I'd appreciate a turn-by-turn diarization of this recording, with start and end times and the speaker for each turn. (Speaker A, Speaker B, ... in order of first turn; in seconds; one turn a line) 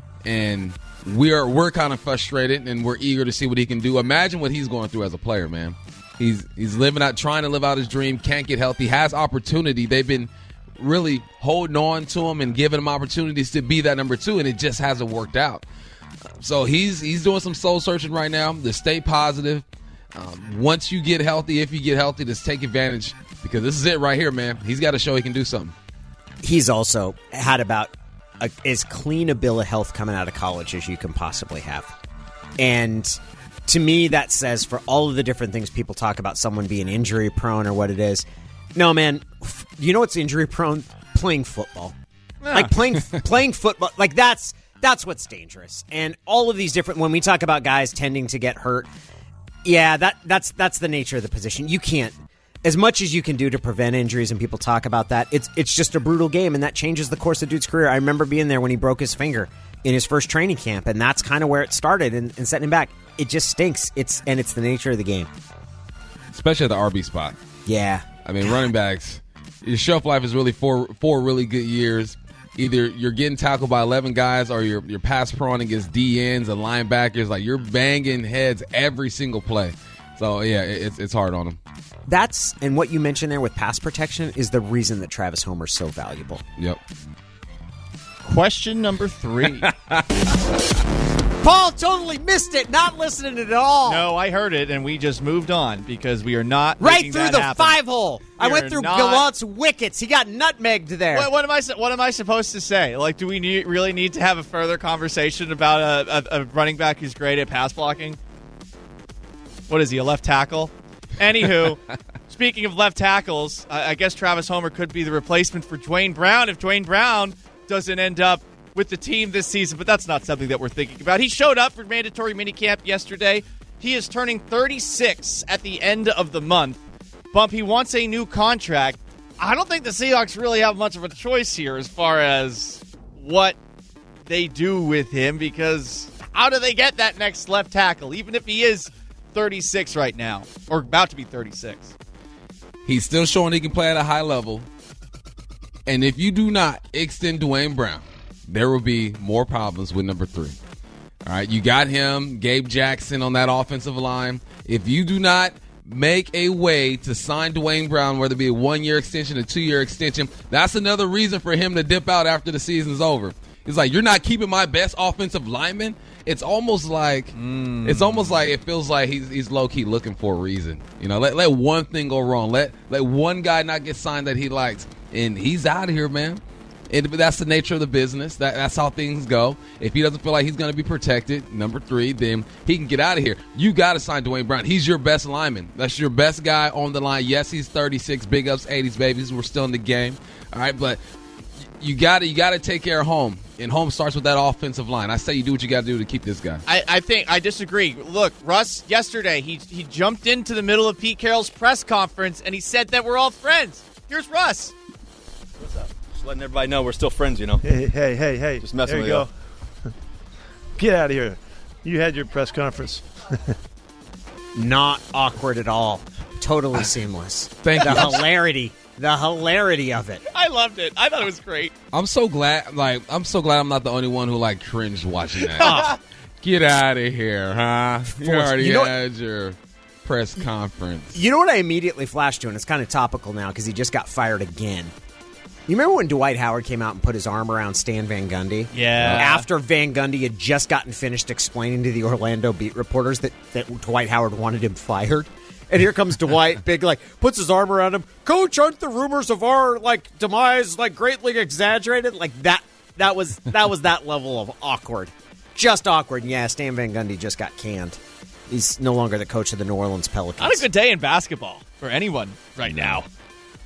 Speaker A: 0.2-15.6
Speaker A: 16.4-19.6
Speaker A: 20.1-25.7
Speaker B: 26.4-31.9
Speaker B: 32.6-38.2
Speaker B: 38.8-41.9
Speaker C: 42.4-42.7
Speaker B: 42.5-48.9
Speaker B: 49.6-65.3
Speaker A: 66.3-67.4
Speaker B: 67.7-68.6
Speaker A: 68.2-81.6
Speaker B: 82.1-86.4
Speaker C: 88.2-89.7
Speaker A: 89.6-90.0
Speaker B: 91.4-94.0
Speaker C: 93.9-97.8
Speaker B: 96.8-101.3
Speaker C: 98.4-99.2
Speaker C: 101.1-108.2
Speaker C: 109.7-126.8
Speaker C: 127.3-133.6
Speaker C: 134.2-141.9
Speaker A: 142.8-144.7
Speaker A: 145.8-150.6
Speaker A: 151.2-191.0
Speaker C: 167.3-168.4
Speaker A: 191.8-196.6
Speaker C: 196.7-204.7
Speaker D: 205.6-207.7
Speaker E: 207.6-209.3
Speaker D: 208.6-209.3
Speaker E: 210.8-213.0
Speaker B: 214.5-220.2
Speaker A: 217.6-218.2
Speaker C: 220.3-221.7
Speaker A: 221.9-231.2
Speaker C: 225.5-226.0
Speaker B: 225.6-225.9
Speaker B: 228.1-228.9
Speaker B: 231.1-234.9
Speaker B: 235.7-258.0
Speaker C: 238.7-239.5
Speaker A: 239.0-239.3
Speaker B: 258.5-260.7
Speaker C: 260.4-263.0
Speaker A: 262.7-263.0